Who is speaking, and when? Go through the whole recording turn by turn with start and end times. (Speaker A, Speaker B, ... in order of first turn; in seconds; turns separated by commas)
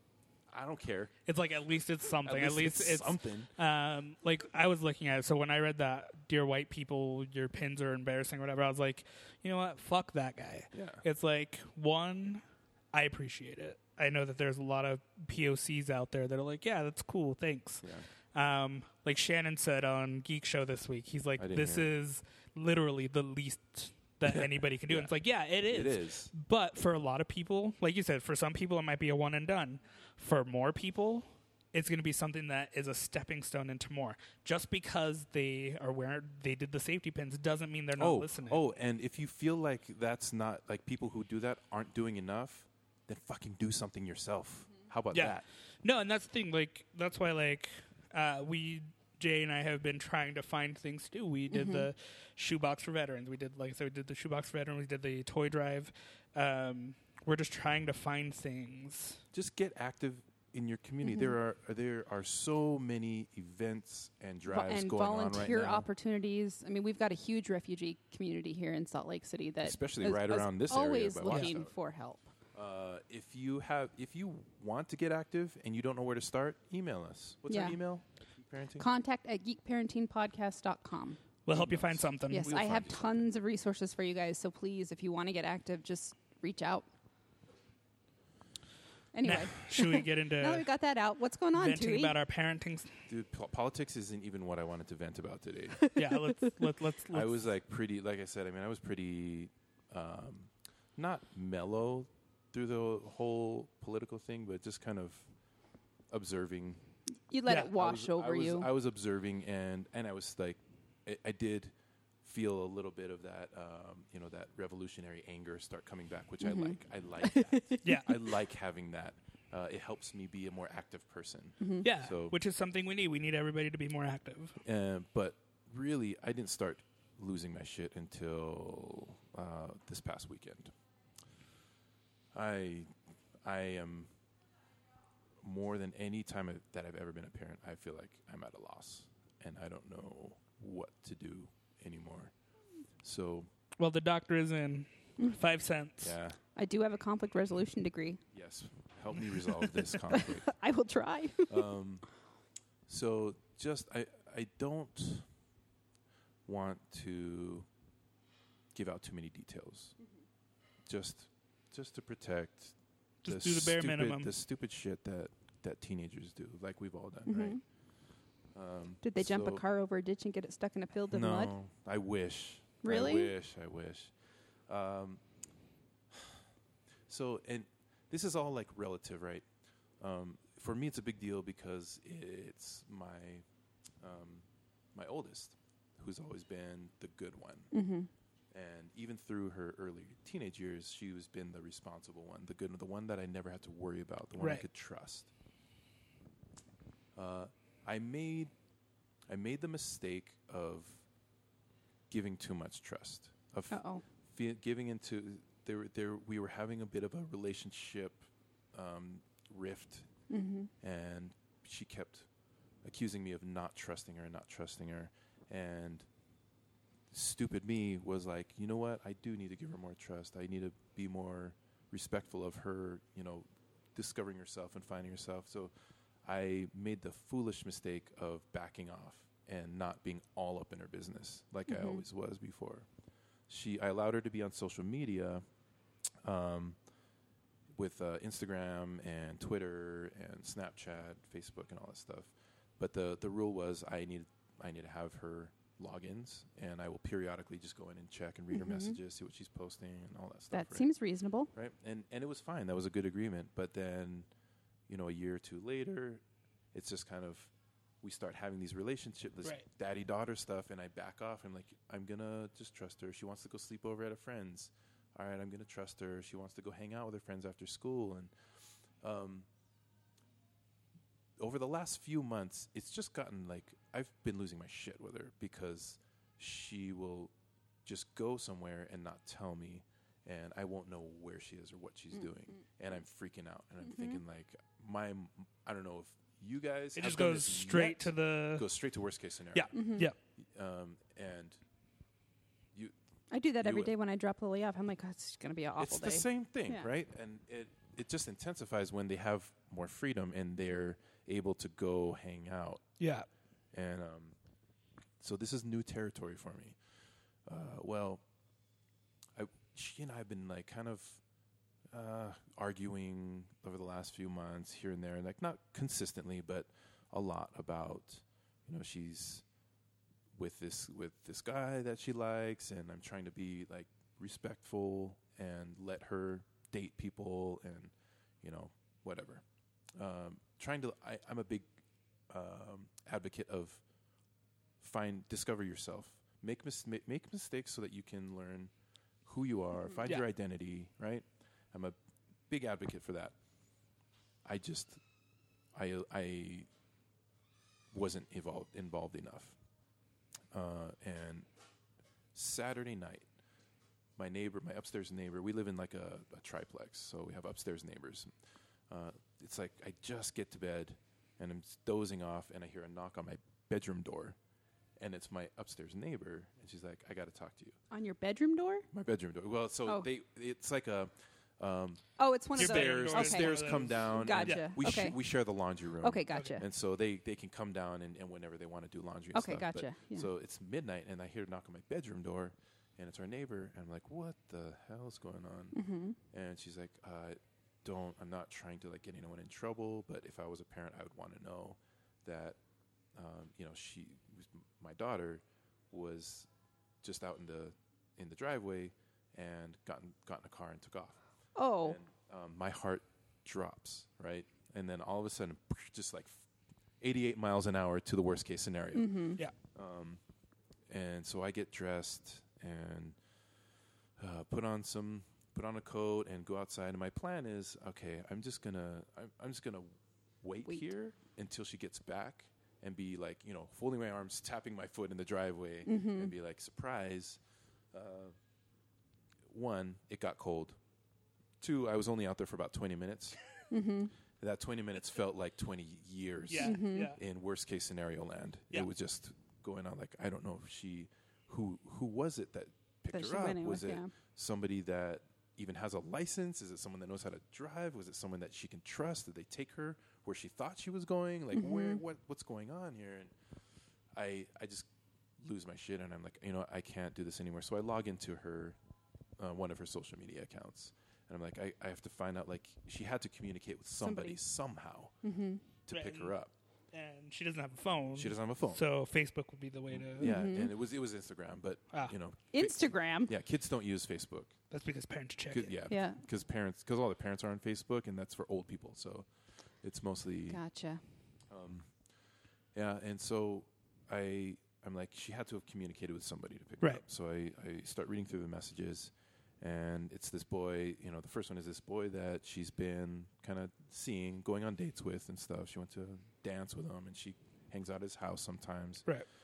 Speaker A: 0.5-1.1, Speaker B: 1.2-38.6, Speaker A: 2.2-3.5, Speaker A: 10.7-11.0, Speaker A: 21.4-21.9, Speaker A: 24.2-26.3, Speaker A: 38.0-45.5, Speaker B: 45.1-59.2, Speaker C: 51.5-51.9, Speaker A: 59.3-65.9, Speaker C: 61.0-61.3, Speaker C: 64.5-72.3, Speaker A: 69.6-71.7, Speaker A: 72.5-78.9, Speaker C: 77.5-77.8, Speaker C: 78.8-81.2, Speaker B: 81.5-82.5, Speaker A: 81.5-83.3, Speaker C: 82.3-86.9, Speaker C: 89.1-92.1, Speaker B: 89.2-90.7, Speaker B: 91.5-92.9, Speaker A: 93.1-95.8, Speaker B: 95.9-97.4, Speaker A: 97.1-105.3, Speaker A: 106.1-106.8, Speaker C: 107.3-108.7, Speaker A: 107.5-122.4, Speaker C: 116.4-117.9, Speaker B: 117.8-118.1, Speaker B: 121.8-124.6, Speaker A: 124.6-130.7, Speaker A: 132.3-134.1, Speaker A: 135.4-142.3, Speaker A: 143.0-143.5, Speaker B: 143.8-146.2, Speaker A: 146.0-146.4, Speaker C: 146.6-148.2, Speaker A: 148.3-150.5, Speaker C: 150.1-151.7, Speaker A: 151.5-152.0, Speaker A: 152.9-155.3, Speaker A: 156.4-157.7, Speaker A: 158.7-159.9, Speaker A: 160.8-167.6, Speaker B: 163.2-164.3, Speaker C: 167.3-167.6, Speaker A: 168.5-169.6, Speaker C: 169.0-171.5, Speaker A: 171.1-174.1, Speaker C: 172.8-173.3, Speaker A: 174.7-175.2, Speaker A: 176.1-176.4, Speaker A: 177.1-179.4, Speaker A: 180.0-183.4, Speaker A: 184.0-187.7, Speaker C: 187.7-188.1, Speaker A: 188.5-195.3, Speaker B: 194.4-194.6, Speaker A: 197.1-198.5, Speaker A: 199.3-201.0, Speaker A: 202.1-210.1, Speaker C: 203.7-204.0, Speaker C: 210.3-210.7, Speaker A: 210.8-212.3, Speaker A: 212.8-216.1, Speaker A: 217.1-225.7, Speaker A: 226.2-232.9, Speaker C: 231.7-232.0, Speaker A: 233.5-235.4, Speaker A: 236.2-236.8, Speaker A: 237.7-250.9, Speaker C: 248.5-248.9, Speaker C: 250.5-251.5, Speaker A: 251.5-254.3, Speaker A: 254.9-268.3, Speaker A: 269.0-269.5, Speaker A: 271.4-277.3, Speaker A: 277.8-289.7, Speaker C: 283.8-284.2, Speaker B: 286.9-288.7, Speaker B: 289.5-290.1, Speaker C: 289.7-290.1, Speaker A: 290.4-291.6, Speaker C: 293.3-296.9, Speaker A: 293.6-293.9, Speaker A: 295.8-302.9, Speaker B: 303.0-303.2, Speaker A: 303.7-304.4, Speaker A: 305.2-306.8, Speaker A: 307.4-308.2, Speaker A: 309.3-311.2, Speaker A: 311.9-319.4, Speaker A: 320.3-329.4, Speaker A: 329.9-331.7, Speaker A: 332.3-333.8, Speaker A: 334.8-338.7, Speaker A: 339.2-342.0, Speaker A: 342.5-343.3, Speaker A: 344.4-345.0, Speaker A: 345.7-346.7, Speaker A: 347.9-349.6, Speaker A: 350.5-351.5, Speaker A: 352.3-353.3, Speaker A: 354.2-358.3, Speaker A: 358.9-364.4, Speaker A: 365.0-367.8, Speaker C: 367.9-368.9, Speaker A: 368.9-385.8, Speaker C: 372.2-375.2, Speaker B: 372.5-374.7, Speaker C: 376.0-376.6, Speaker C: 379.3-380.3, Speaker C: 385.7-386.2, Speaker A: 386.3-392.6, Speaker A: 393.1-396.5, Speaker A: 397.0-401.2, Speaker C: 401.6-402.0, Speaker A: 401.8-406.4, Speaker A: 407.0-410.2, Speaker C: 408.9-409.4, Speaker A: 410.9-413.2, Speaker A: 414.2-427.4, Speaker C: 425.9-426.3, Speaker A: 427.9-428.4, Speaker A: 429.5-430.8, Speaker A: 431.6-433.4, Speaker C: 433.7-434.1, Speaker A: 434.4-453.3, Speaker B: 436.5-437.2, Speaker C: 436.6-437.1, Speaker C: 443.1-444.1, Speaker C: 451.5-452.0, Speaker A: 454.1-458.8, Speaker A: 459.4-465.1, Speaker C: 464.0-464.4, Speaker C: 465.2-465.6, Speaker A: 465.9-466.5, Speaker B: 465.9-466.3, Speaker B: 466.9-470.3, Speaker A: 468.1-468.8, Speaker A: 469.9-474.6, Speaker C: 470.2-470.7, Speaker C: 472.5-473.3, Speaker B: 474.7-475.8, Speaker A: 475.5-479.3, Speaker C: 475.9-476.2, Speaker A: 479.8-480.6, Speaker C: 480.5-481.0, Speaker A: 481.5-481.9, Speaker A: 482.7-499.1